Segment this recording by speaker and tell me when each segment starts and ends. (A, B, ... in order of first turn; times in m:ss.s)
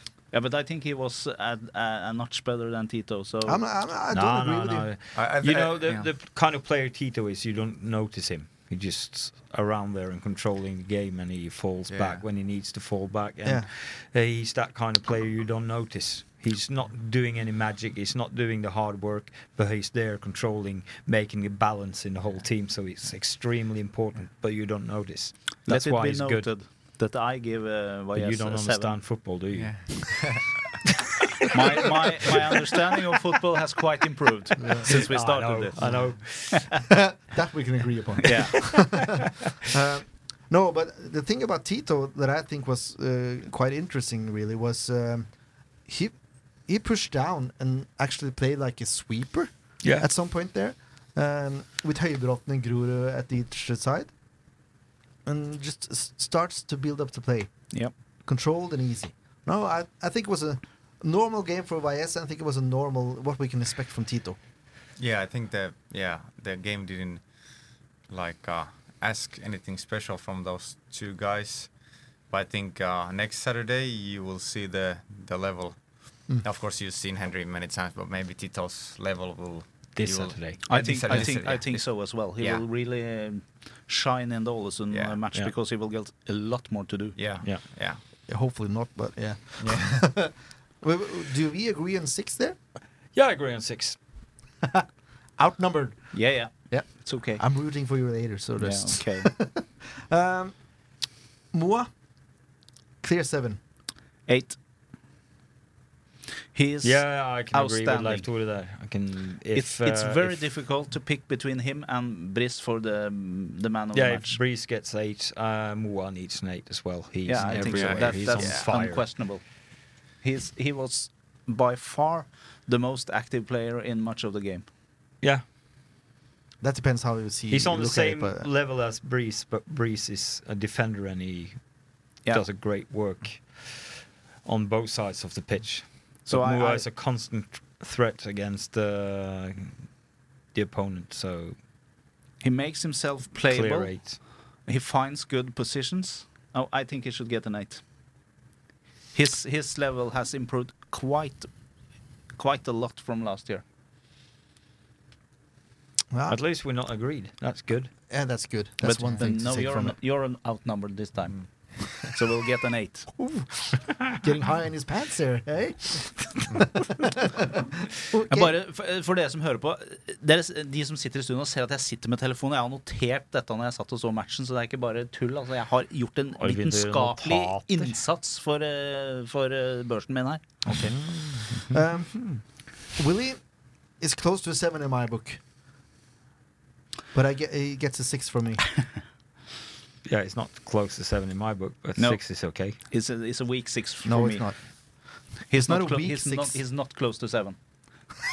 0:00.3-0:03.6 A
0:03.5-0:04.9 B
0:04.1-0:26.5 C
0:05.1-0:06.1 D
0:11.9-0:12.2 D
0:25.7-0:29.2 A
0:28.2-0:30.4 C
0:29.5-0:30.6 D
0:31.5-0:36.4 A
0:34.6-0:35.0 B
0:34.8-0:36.8 C
0:36.9-0:45.3 B
0:38.2-0:39.1 A
0:45.8-0:46.2 B
0:46.7-0:54.1 B
0:49.8-0:50.1 C
0:55.2-1:04.4 B
1:05.0-1:07.4 D
1:08.0-1:22.6 D
1:20.0-1:20.6 C
1:20.7-1:27.2 A
1:24.9-1:25.2 D
1:27.2-1:28.0 D
1:28.3-1:32.6 B
1:29.6-1:30.1 D
1:33.1-1:34.0 C
1:35.4-1:40.7 B
1:36.1-1:37.4 A
1:38.6-1:39.3 A
1:41.5-1:41.9 B
1:43.0-1:43.6 B
1:44.3-1:44.6 A
1:46.5-1:48.3 A
1:46.8-1:50.4 C
1:49.6-1:54.4 A
1:53.9-1:59.0 C
1:57.3-1:59.6 A
1:57.4-1:58.7 D
2:00.1-2:04.7 A
2:06.6-2:08.5 B
2:07.5-2:11.7 C
2:12.2-2:19.8 C
2:16.3-2:16.9 A
2:20.5-2:21.6 C
2:22.4-2:27.8 A
2:23.5-2:24.2 C
2:29.1-2:31.5 A
2:32.4-2:33.6 A
2:36.1-2:36.4 B
2:36.3-2:37.9 C
2:38.1-2:40.0 B
2:38.8-2:43.2 A
2:43.2-2:48.5 B
2:48.3-3:00.9 A
2:56.4-2:58.0 C
3:00.7-3:02.3 B
3:02.9-3:03.4 B
3:04.0-3:05.4 B
3:07.1-3:08.7 B
3:10.0-3:12.8 C
3:12.0-3:14.5 A
3:14.0-3:14.6 B
3:15.5-3:17.6 A
3:15.6-3:16.6 B